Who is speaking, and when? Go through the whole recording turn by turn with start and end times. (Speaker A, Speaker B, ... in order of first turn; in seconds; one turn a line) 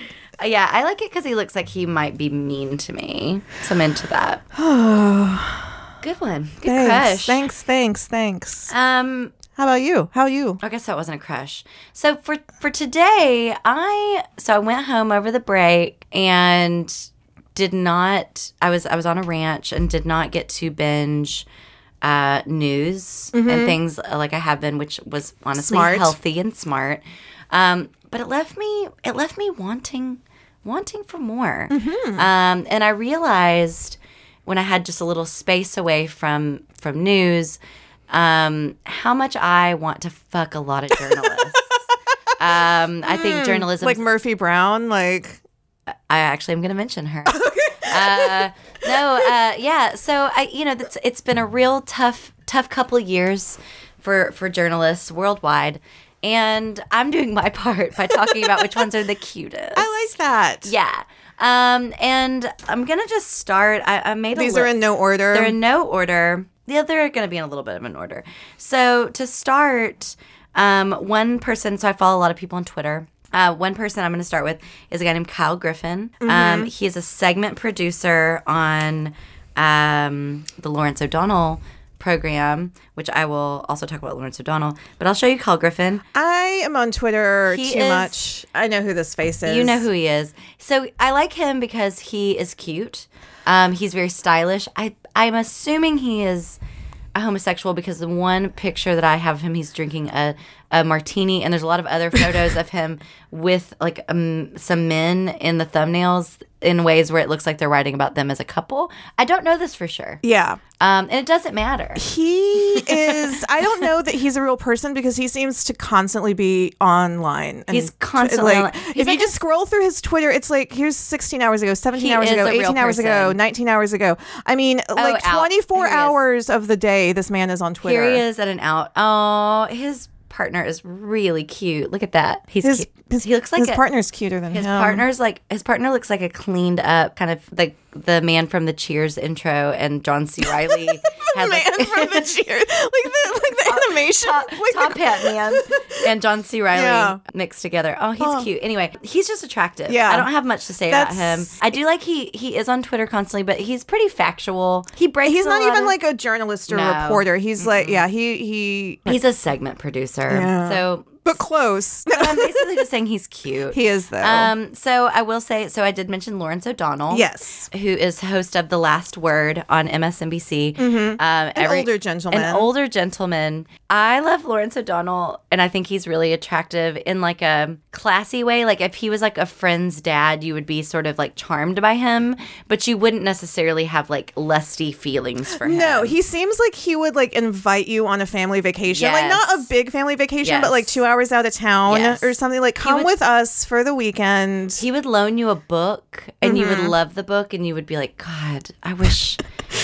Speaker A: 0.4-4.4
Speaker B: 4.5-5.8
Speaker A: 6.0-7.4
Speaker B: 6.6-8.7
Speaker A: 8.7-9.3
Speaker B: 9.6-10.6
Speaker A: 10.6-21.4
Speaker A: 22.0-37.6
Speaker B: 23.3-23.8
Speaker B: 25.6-26.1
Speaker B: 31.7-32.2
Speaker A: 38.1-41.7
Speaker B: 41.0-41.5
Speaker A: 42.4-44.0
Speaker B: 43.0-45.4
Speaker A: 45.9-59.9
Speaker B: 47.3-49.3
Speaker B: 59.8-60.7
Speaker A: 60.6-64.8
Speaker B: 64.3-65.5
Speaker A: 65.3-86.0
Speaker B: 76.2-76.7
Speaker B: 86.1-89.8
Speaker A: 87.5-88.2
Speaker A: 89.5-96.6
Speaker A: 97.1-110.2
Speaker B: 110.2-110.6
Speaker A: 110.8-112.0
Speaker B: 112.0-128.2
Speaker A: 112.7-113.2
Speaker A: 117.7-119.4
Speaker A: 122.0-123.4
Speaker A: 124.9-126.2
Speaker A: 127.8-133.8
Speaker B: 132.6-135.0
Speaker A: 134.5-142.3
Speaker B: 140.4-146.1
Speaker A: 143.7-155.9
Speaker B: 146.7-147.2
Speaker B: 148.2-148.5
Speaker B: 149.9-150.3
Speaker B: 150.9-151.5
Speaker B: 155.2-159.2
Speaker A: 156.7-158.0
Speaker A: 159.1-161.2
Speaker B: 160.3-162.7
Speaker A: 162.1-186.2
Speaker B: 163.7-164.5
Speaker B: 167.1-167.7
Speaker B: 170.8-172.7
Speaker B: 185.6-194.8
Speaker A: 188.9-189.7
Speaker A: 190.4-191.0
Speaker A: 191.9-193.1
Speaker A: 194.8-199.4
Speaker B: 196.4-196.9